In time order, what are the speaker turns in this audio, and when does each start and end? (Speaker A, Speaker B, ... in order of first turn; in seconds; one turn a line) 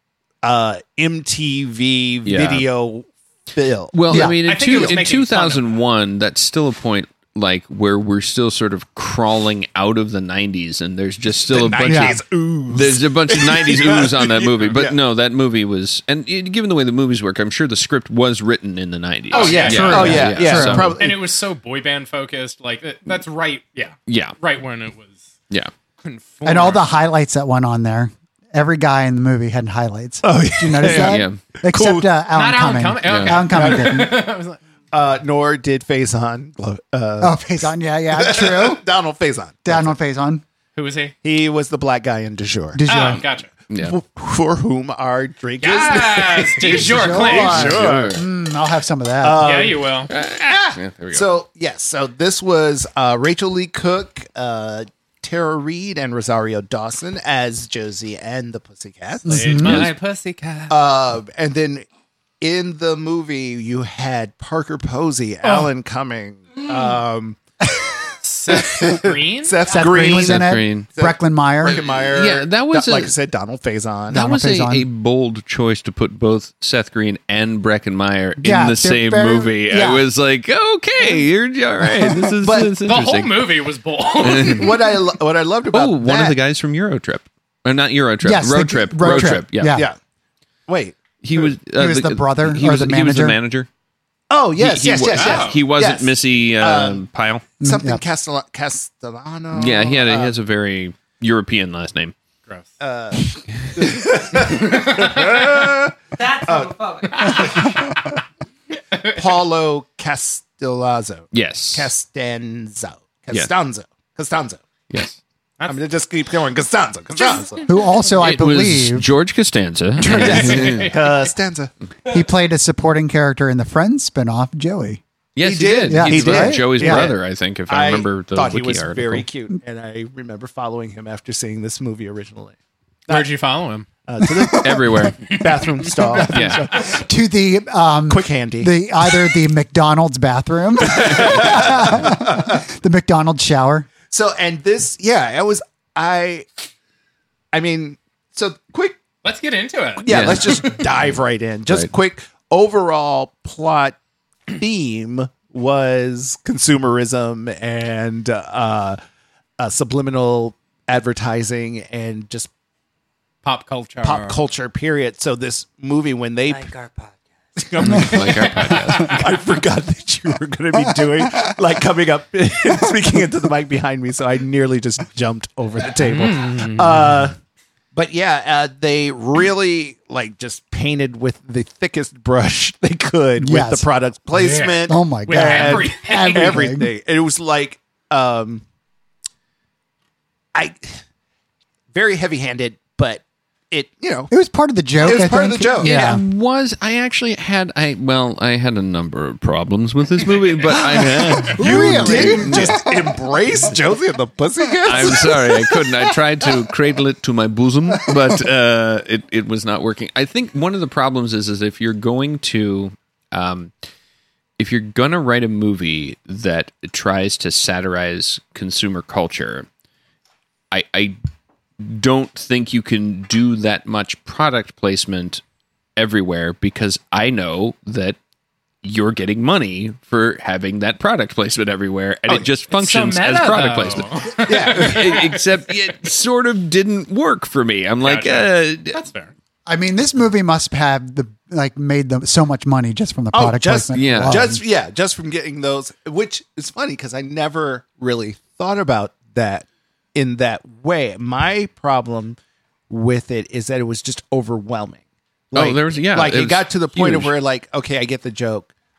Speaker A: 0.4-5.0
Speaker B: 2.2-2.7
Speaker B: 3.9-21.0
Speaker C: 4.1-4.4
Speaker D: 4.4-5.7
Speaker A: 11.4-15.0
Speaker C: 11.8-12.2
Speaker A: 19.3-21.2
Speaker D: 19.3-25.3
Speaker C: 19.6-21.0
Speaker B: 24.1-24.4
Speaker D: 26.0-26.9
Speaker C: 26.4-34.2
Speaker A: 30.2-32.1
Speaker B: 30.9-31.4
Speaker D: 32.3-34.6
Speaker B: 33.0-33.4
Speaker A: 33.5-34.1
Speaker A: 34.9-37.5
Speaker C: 37.2-38.8
Speaker A: 38.1-40.0
Speaker C: 39.6-40.4
Speaker D: 40.7-41.1
Speaker A: 41.2-43.2
Speaker C: 42.7-43.2
Speaker D: 42.9-43.5
Speaker B: 43.7-44.0
Speaker A: 43.8-48.2
Speaker D: 45.6-47.8
Speaker C: 46.6-49.5
Speaker B: 47.4-48.2
Speaker A: 49.2-59.8
Speaker D: 49.4-50.1
Speaker B: 50.1-51.3
Speaker C: 59.2-59.9
Speaker D: 59.3-60.8
Speaker B: 59.6-59.9
Speaker A: 60.7-61.8
Speaker A: 62.4-67.4
Speaker D: 65.4-65.7
Speaker D: 68.2-69.6
Speaker A: 68.5-74.3
Speaker C: 69.7-71.8
Speaker B: 70.1-70.9
Speaker B: 71.6-73.1
Speaker C: 74.1-74.8
Speaker B: 74.1-83.5
Speaker C: 78.4-80.0
Speaker A: 82.4-82.7
Speaker D: 82.8-85.0
Speaker B: 84.2-84.7
Speaker A: 84.2-86.4
Speaker B: 85.7-89.8
Speaker C: 88.2-89.9
Speaker A: 89.2-90.0
Speaker A: 90.7-91.5
Speaker B: 91.2-93.7
Speaker C: 91.8-93.4
Speaker A: 94.3-97.0
Speaker B: 94.6-97.5
Speaker D: 95.1-95.6
Speaker A: 97.6-100.3
Speaker C: 97.6-98.0
Speaker B: 99.5-102.1
Speaker A: 102.8-107.8
Speaker E: 106.1-107.7
Speaker A: 109.0-114.6
Speaker B: 111.3-111.9
Speaker B: 114.9-115.2
Speaker A: 115.7-117.7
Speaker C: 117.7-119.1
Speaker B: 118.2-120.9
Speaker A: 120.0-121.7
Speaker D: 120.0-121.3
Speaker C: 122.1-125.0
Speaker B: 125.3-129.2
Speaker A: 125.4-132.6
Speaker C: 125.8-127.1
Speaker D: 133.1-133.9
Speaker A: 134.0-136.9
Speaker C: 134.2-135.3
Speaker B: 134.6-135.4
Speaker C: 136.0-143.9
Speaker B: 136.3-136.7
Speaker A: 138.1-139.2
Speaker A: 140.8-142.6
Speaker A: 144.1-146.5
Speaker A: 147.5-149.0
Speaker D: 149.2-150.4
Speaker A: 150.0-154.0
Speaker B: 150.1-151.1
Speaker A: 154.5-159.0
Speaker A: 159.6-162.5
Speaker D: 163.4-164.4
Speaker A: 164.0-166.7
Speaker E: 166.5-167.2
Speaker A: 167.6-177.3
Speaker B: 167.8-169.2
Speaker D: 168.1-169.1
Speaker D: 175.9-177.2
Speaker A: 177.9-188.6
Speaker C: 183.4-183.9
Speaker D: 184.3-186.7
Speaker C: 184.9-186.9
Speaker A: 190.5-191.0
Speaker A: 191.9-194.3
Speaker C: 194.3-196.2
Speaker A: 195.0-196.0
Speaker B: 195.8-202.8
Speaker A: 201.4-205.9
Speaker C: 201.5-203.2
Speaker B: 204.8-213.7
Speaker B: 214.6-219.7
Speaker B: 220.7-221.2
Speaker B: 221.8-225.4
Speaker B: 226.0-228.2
Speaker B: 228.8-239.0
Speaker D: 232.7-235.4
Speaker A: 234.4-235.3
Speaker D: 238.0-239.3
Speaker C: 239.7-244.6
Speaker A: 243.3-252.4
Speaker B: 243.9-244.5
Speaker A: 252.9-258.7
Speaker B: 255.5-257.3